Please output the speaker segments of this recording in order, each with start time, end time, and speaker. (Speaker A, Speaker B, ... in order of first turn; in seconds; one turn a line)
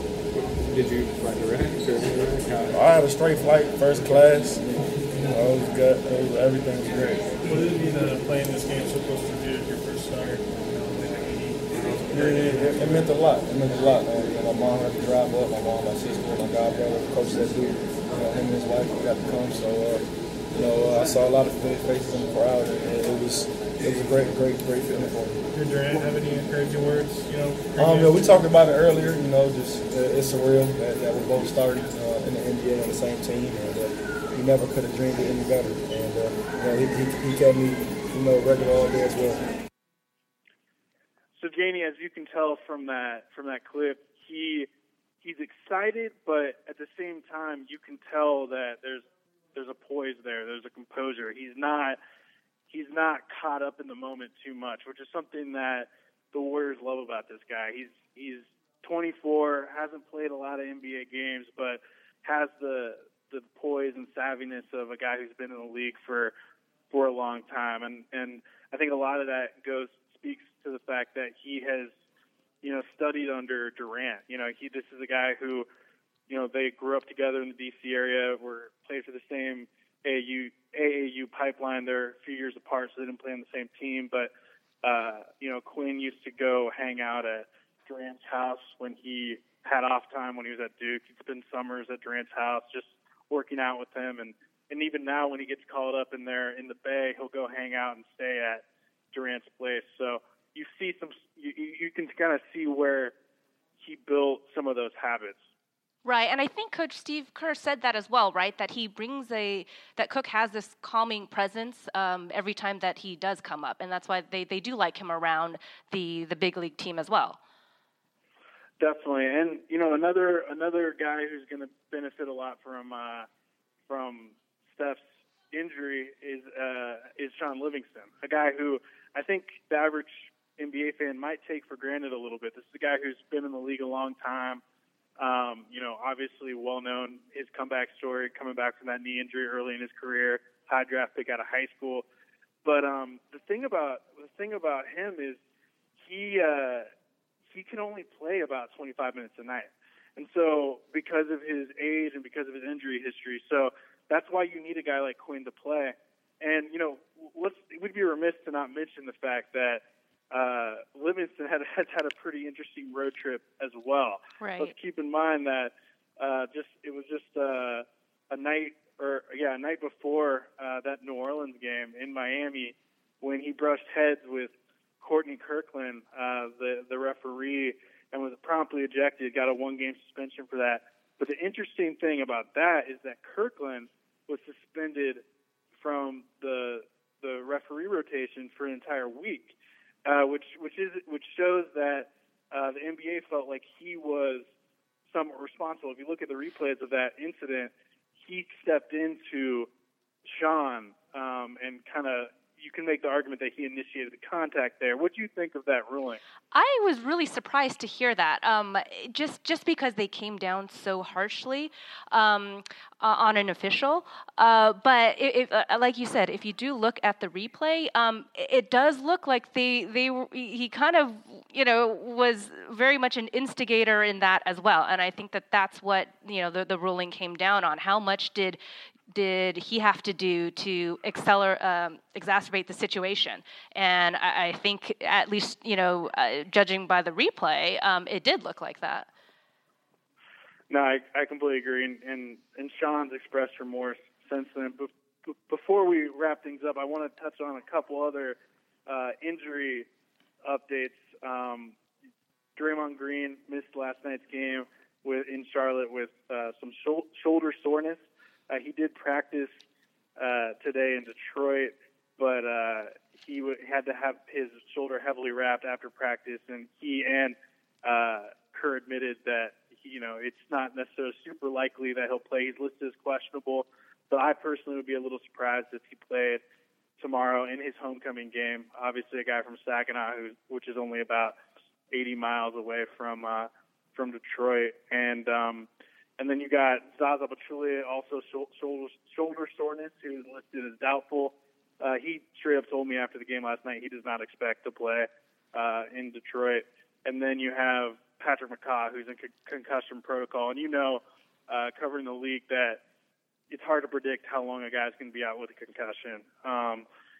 Speaker A: 0.3-2.8
Speaker B: 2.7-4.7
Speaker B: 5.2-7.3
Speaker C: 7.4-13.1
Speaker B: 12.1-25.4
Speaker C: 25.5-28.2
Speaker B: 27.8-39.5
Speaker D: 41.4-44.7
Speaker D: 45.2-52.0
Speaker D: 52.7-66.3
Speaker D: 66.9-71.9
Speaker D: 72.6-75.7
Speaker D: 76.3-84.3
Speaker D: 84.8-103.1
Speaker D: 103.8-105.4
Speaker E: 106.0-117.4
Speaker D: 118.8-123.3
Speaker D: 123.9-134.6
Speaker D: 135.2-142.0
Speaker D: 142.6-145.4
Speaker D: 146.0-146.9
Speaker D: 147.5-185.2
Speaker E: 164.4-164.7
Speaker D: 185.8-194.4
Speaker D: 195.1-199.7
Speaker D: 200.2-206.2
Speaker E: 206.5-228.6
Speaker E: 229.1-239.1
Speaker D: 240.7-249.9
Speaker D: 250.4-251.7
Speaker D: 252.6-259.5
Speaker D: 260.2-276.4
Speaker D: 277.0-281.3
Speaker D: 281.9-285.7
Speaker D: 286.2-302.8
Speaker D: 303.5-306.9